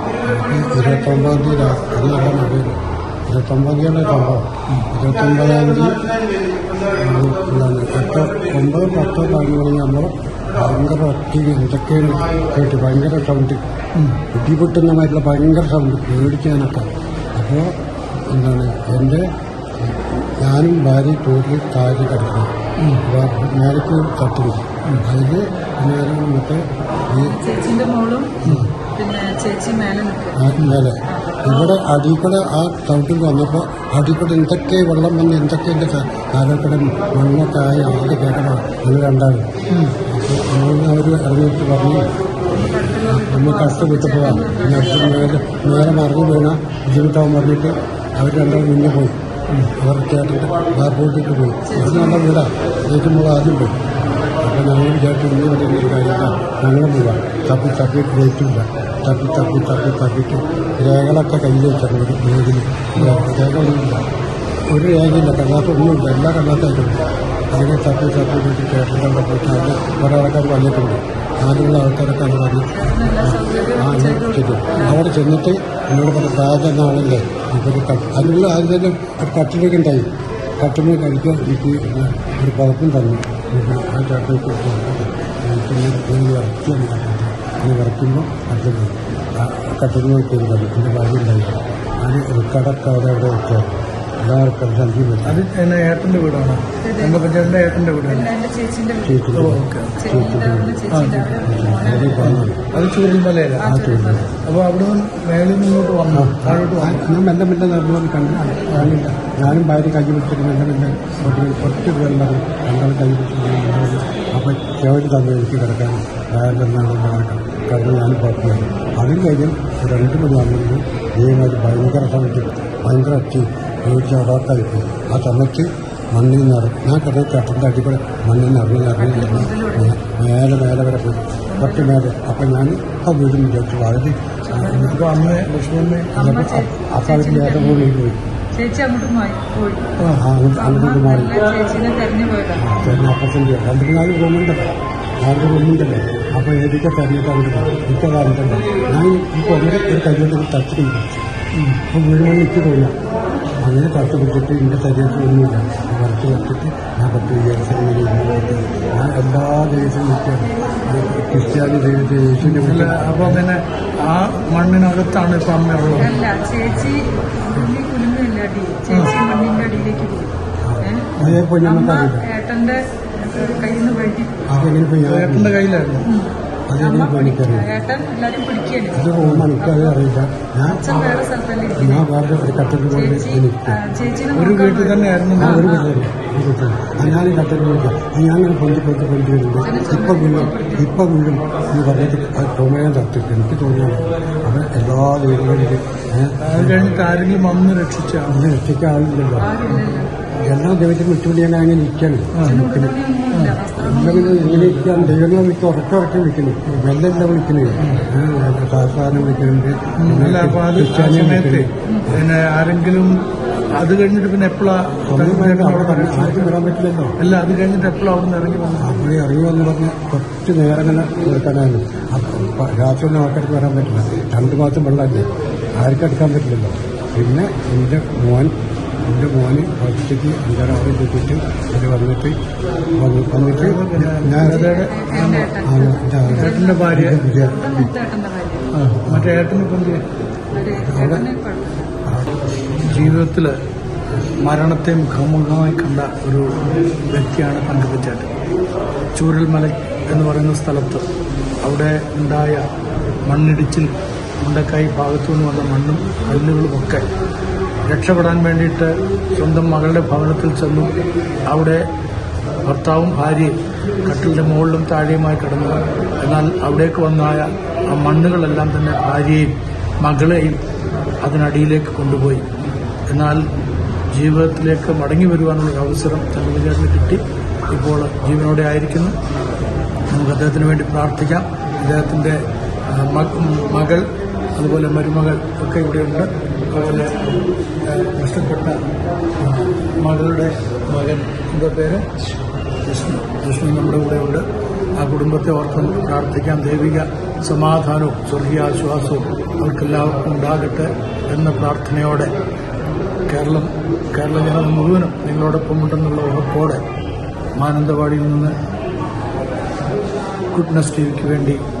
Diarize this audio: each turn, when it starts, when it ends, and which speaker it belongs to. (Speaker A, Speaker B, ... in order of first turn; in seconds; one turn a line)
Speaker A: 0.3-6.1
Speaker A: 6.8-13.6
Speaker B: 13.9-14.2
Speaker A: 14.3-17.7
Speaker A: 18.3-19.2
Speaker A: 19.8-22.5
Speaker B: 22.8-23.0
Speaker A: 23.0-27.4
Speaker C: 27.1-31.8
Speaker A: 28.4-28.7
Speaker B: 28.4-28.7
Speaker A: 30.4-39.5
Speaker B: 39.7-40.0
Speaker A: 40.0-42.0
Speaker C: 42.5-46.0
Speaker A: 43.0-49.2
Speaker A: 49.8-64.0
Speaker C: 51.6-52.2
Speaker B: 62.9-63.2
Speaker A: 64.7-80.1
Speaker C: 72.7-75.0
Speaker A: 80.6-95.4
Speaker B: 95.2-98.3
Speaker C: 96.8-97.3
Speaker C: 98.0-99.3
Speaker A: 99.0-100.8
Speaker B: 99.3-100.0
Speaker C: 99.9-102.3
Speaker B: 100.9-101.3
Speaker A: 101.4-102.6
Speaker B: 102.2-103.8
Speaker C: 103.6-104.3
Speaker A: 103.6-104.3
Speaker B: 104.4-107.1
Speaker A: 106.1-135.0
Speaker C: 129.0-130.0
Speaker C: 131.5-131.9
Speaker C: 134.4-135.2
Speaker B: 134.7-136.2
Speaker C: 136.1-137.9
Speaker A: 136.2-138.2
Speaker C: 138.5-139.9
Speaker B: 140.0-140.2
Speaker A: 140.1-141.4
Speaker C: 140.5-142.8
Speaker A: 142.6-144.7
Speaker B: 142.8-143.1
Speaker A: 145.2-151.2
Speaker B: 151.5-151.8
Speaker A: 151.9-152.9
Speaker A: 153.6-163.4
Speaker B: 162.4-166.2
Speaker C: 165.9-174.4
Speaker A: 170.6-172.2
Speaker A: 174.5-175.6
Speaker B: 174.5-176.1
Speaker C: 176.0-180.0
Speaker A: 176.7-177.7
Speaker A: 178.9-181.2
Speaker B: 179.2-179.5
Speaker C: 180.6-182.1
Speaker A: 181.8-183.8
Speaker C: 182.8-185.9
Speaker B: 184.3-185.7
Speaker A: 185.3-196.8
Speaker C: 189.6-191.0
Speaker B: 196.4-198.4
Speaker A: 198.3-199.7
Speaker C: 199.4-200.1
Speaker A: 200.4-202.9
Speaker B: 202.3-202.7
Speaker C: 202.4-204.5
Speaker B: 203.3-203.6
Speaker A: 203.8-211.7
Speaker B: 204.3-205.2
Speaker B: 207.8-208.0
Speaker B: 210.0-213.2
Speaker C: 211.8-212.1
Speaker B: 213.8-216.5
Speaker A: 215.1-217.1
Speaker B: 217.2-218.9
Speaker A: 218.8-232.4
Speaker A: 232.9-234.7
Speaker B: 233.4-235.6
Speaker C: 234.4-238.7
Speaker A: 235.6-237.9
Speaker B: 236.3-237.3
Speaker B: 238.7-240.0
Speaker A: 239.1-239.4
Speaker C: 240.5-241.9
Speaker A: 240.8-241.3
Speaker A: 242.0-243.2
Speaker B: 242.8-243.6
Speaker B: 244.4-248.3
Speaker B: 249.1-251.0
Speaker B: 251.6-252.7
Speaker B: 253.2-257.1
Speaker B: 257.9-260.9
Speaker B: 261.5-261.9
Speaker B: 262.6-270.6
Speaker B: 271.2-272.5
Speaker B: 273.1-273.5
Speaker B: 274.1-279.2
Speaker B: 280.1-288.8
Speaker C: 286.8-287.5
Speaker B: 289.4-292.3
Speaker B: 292.8-302.3
Speaker B: 303.3-306.8
Speaker B: 307.6-308.6
Speaker B: 310.5-311.6